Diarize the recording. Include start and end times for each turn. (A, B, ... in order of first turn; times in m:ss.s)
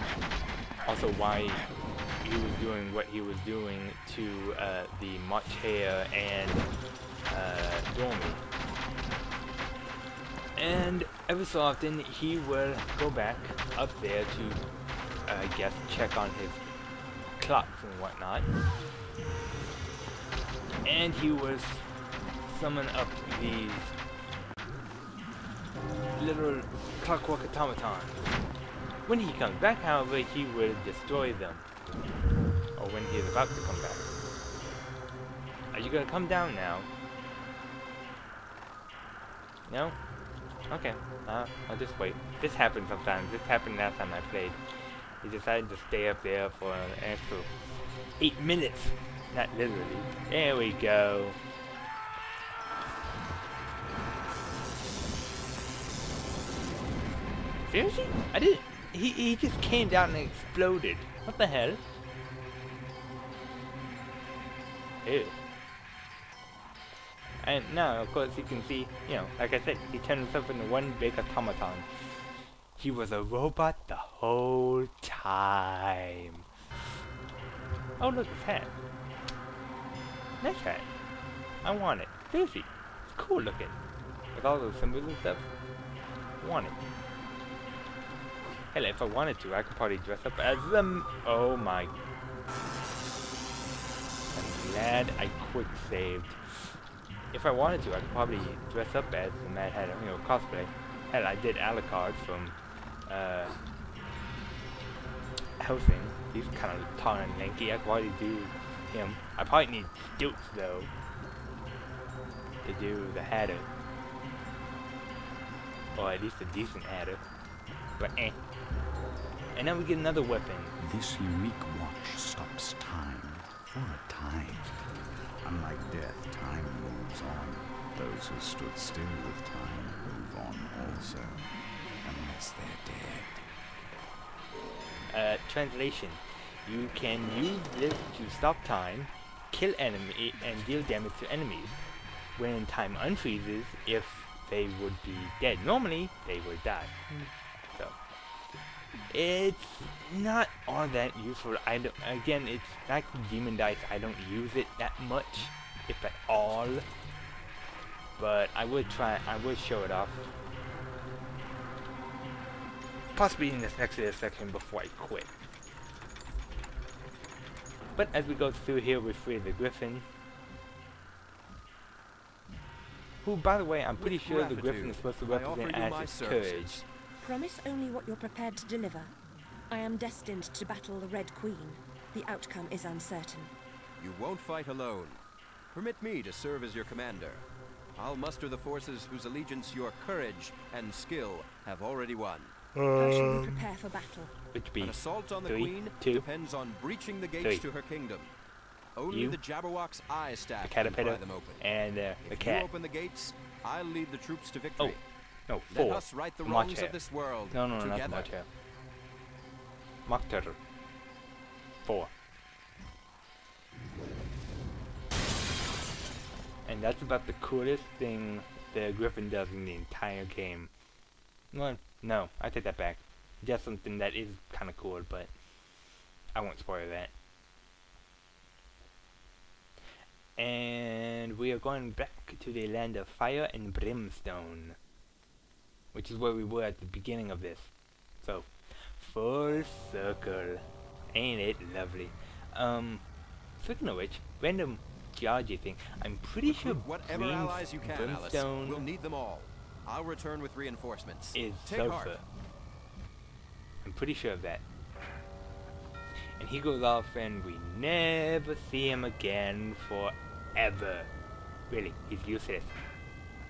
0:00.8-0:01.6 A
0:02.2-0:06.7 A
0:07.3-0:08.4 A
0:10.6-0:14.6 A
0:15.2-0:16.6 A
0:17.4-0:18.6 A
0:20.8-0:21.8 A
0:22.4-0:23.9 A
0:26.1-0:28.2 A
0:29.0-0:31.6 A
0:32.8-0:34.1 A
0:35.7-0:36.9 A
0:39.7-0:40.0 A
0:40.7-0:44.6 A
0:45.2-0:47.5 A
0:48.2-0:51.4 A
0:57.7-1:01.8 A
1:05.0-1:05.4 A
1:07.4-1:11.9 A
1:12.8-1:16.4 A
1:18.0-1:18.7 A
1:20.4-1:20.9 A
1:21.6-1:23.8 A
1:24.3-1:25.5 A
1:26.4-1:26.8 A
1:28.7-1:31.9 A
1:34.3-1:36.8 A
1:37.3-1:43.5 A
1:45.6-1:50.9 A
1:52.6-1:53.7 A
1:55.9-1:57.2 A
1:58.0-1:58.4 A
1:59.5-2:00.8 A
2:00.8-2:04.7 B
2:05.4-2:11.5 B
2:12.0-2:13.4 B
2:15.1-2:21.8 A
2:22.3-2:26.9 A
2:29.1-2:36.8 A
2:38.2-2:40.3 A
2:43.1-2:45.3 A
2:47.9-2:50.0 A
2:53.2-2:56.8 A
2:53.9-2:56.8 C
2:57.2-2:59.1 D
2:59.7-3:03.5 D
3:04.0-3:05.2 C
3:05.7-3:07.4 C
3:08.0-3:12.5 C
3:12.8-3:13.7 A
3:12.9-3:14.3 D
3:14.5-3:16.2 A
3:14.8-3:18.3 C
3:17.4-3:17.6 A
3:19.0-3:21.6 C
3:19.1-3:19.4 A
3:20.6-3:22.7 A
3:22.2-3:25.0 C
3:25.5-3:27.0 A
3:25.7-3:28.3 C
3:27.5-3:28.5 A
3:30.0-3:30.6 A
3:31.8-3:32.1 A
3:36.6-3:40.7 A
3:41.5-3:45.3 A
3:46.3-3:47.1 A
3:50.4-3:54.8 A
3:55.9-4:03.0 A
4:03.6-4:08.9 A
4:06.4-4:12.2 C
4:11.3-4:12.2 A
4:13.8-4:14.6 A
4:16.4-4:21.1 A
4:21.7-4:22.7 A